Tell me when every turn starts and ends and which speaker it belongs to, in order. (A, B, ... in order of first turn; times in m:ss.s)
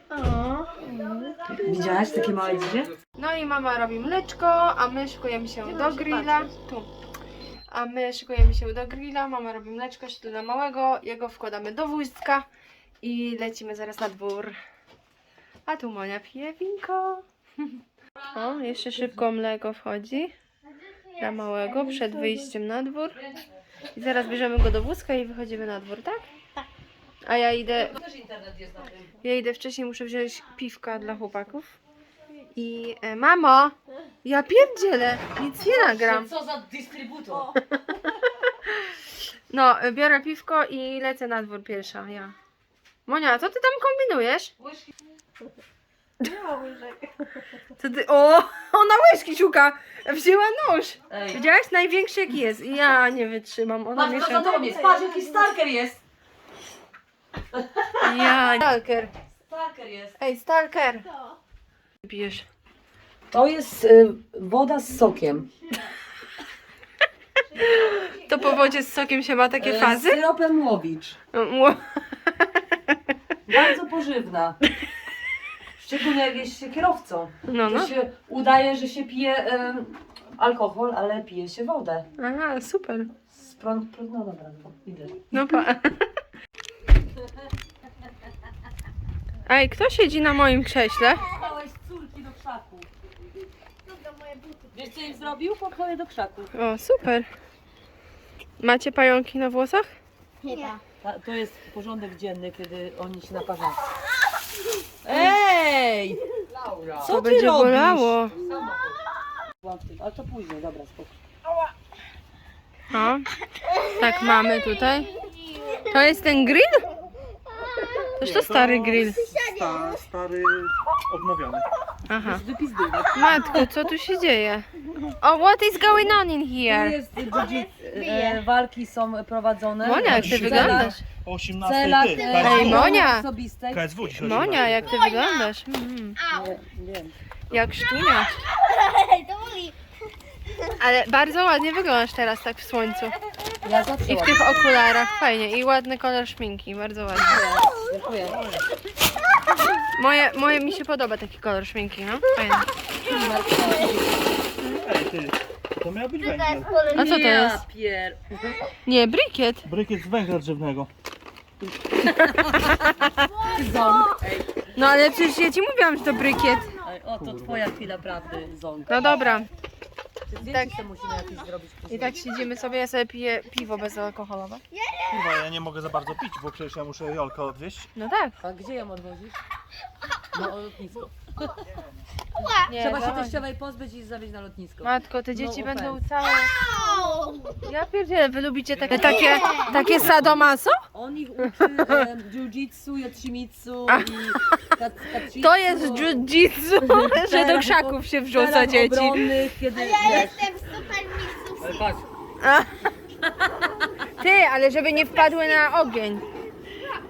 0:00.1-0:02.6 A
0:01.5-0:02.9 B
0:03.1-0:06.9 C
0:05.6-0:06.4 B
0:07.7-0:12.5 C
0:13.0-0:14.6 C
0:15.6-0:17.2 C
0:18.3-0:20.3 C
0:20.7-0:22.4 A
0:21.2-0:23.2 C
0:23.9-0:26.3 C
0:27.2-0:28.0 C
0:27.7-0:29.1 B
0:29.2-0:31.7 C
0:32.5-0:36.3 C
0:35.5-0:37.5 B
0:39.5-0:42.3 C
0:43.0-0:44.5 C
0:44.6-0:44.9 B
0:46.2-0:47.2 A
0:47.8-0:54.6 C
0:51.1-0:51.4 B
0:53.9-0:56.0 B
0:54.6-0:55.3 A
0:57.5-0:58.6 B
0:58.0-0:59.1 C
0:59.5-1:00.2 B
1:00.2-1:01.0 C
1:02.0-1:02.4 C
1:03.3-1:05.5 B
1:07.6-1:10.2 C
1:07.8-1:08.5 B
1:09.6-1:11.2 B
1:11.3-1:12.4 C
1:13.4-1:14.6 B
1:15.8-1:22.1 B
1:17.5-1:17.9 C
1:22.2-1:23.1 C
1:23.3-1:25.2 B
1:25.3-1:26.0 C
1:29.4-1:31.3 C
1:31.2-1:32.9 B
1:33.8-1:35.1 A
1:34.7-1:36.5 B
1:36.5-1:37.3 C
1:38.6-1:39.9 C
1:40.4-1:40.8 A
1:40.5-1:43.8 B
1:45.0-1:49.0 B
1:47.0-1:48.3 C
1:49.6-1:51.1 B
1:52.9-1:53.3 C
1:53.5-1:55.9 A
1:53.9-1:55.1 C
1:55.9-1:56.9 C
1:57.5-1:58.2 A
1:58.2-1:59.2 C
1:58.2-2:01.7 D
1:59.0-2:00.0 A
2:02.1-2:02.4 C
2:02.2-2:03.6 B
2:03.1-2:04.7 C
2:05.2-2:07.0 C
2:06.7-2:11.0 B
2:07.3-2:08.4 A
2:09.8-2:11.0 C
2:10.0-2:13.0 D
2:11.6-2:13.8 B
2:12.2-2:12.5 A
2:12.3-2:13.2 C
2:13.7-2:14.9 D
2:14.2-2:16.2 C
2:14.7-2:15.5 A
2:16.2-2:16.6 A
2:16.3-2:17.1 B
2:17.5-2:18.5 C
2:18.5-2:19.8 A
2:20.5-2:20.7 A
2:20.8-2:23.1 C
2:23.6-2:24.7 B
2:24.0-2:27.4 C
2:27.1-2:28.4 B
2:28.2-2:28.7 D
2:29.9-2:32.7 C
2:33.0-2:34.2 B
2:34.8-2:36.8 D
2:36.2-2:37.1 A
2:36.7-2:38.6 B
2:37.0-2:37.6 C
2:38.8-2:39.6 C
2:39.6-2:40.9 D
2:41.9-2:44.7 B
2:42.4-2:43.3 C
2:43.3-2:44.1 A
2:44.7-2:46.7 C
2:46.5-2:46.9 A
2:46.8-2:49.1 B
2:47.2-2:47.6 D
2:48.9-2:49.5 C
2:50.3-2:52.2 B
2:50.5-2:51.5 A
2:51.9-2:54.6 C
2:52.0-2:52.7 A
2:54.7-2:55.4 A
2:55.1-2:57.9 D
2:58.0-2:58.3 C
2:58.4-2:59.4 B
3:00.3-3:01.3 B
3:02.3-3:02.7 A
3:02.6-3:06.0 B
3:02.7-3:03.4 C
3:04.8-3:06.5 C
3:06.3-3:07.6 A
3:07.6-3:10.8 C
3:08.9-3:09.9 B
3:08.9-3:09.8 A
3:10.9-3:16.3 B
3:13.9-3:14.6 C
3:15.3-3:19.3 C
3:16.8-3:20.5 B
3:19.7-3:21.9 A
3:21.6-3:22.0 B
3:22.4-3:22.7 C
3:24.2-3:26.2 C
3:25.1-3:25.7 A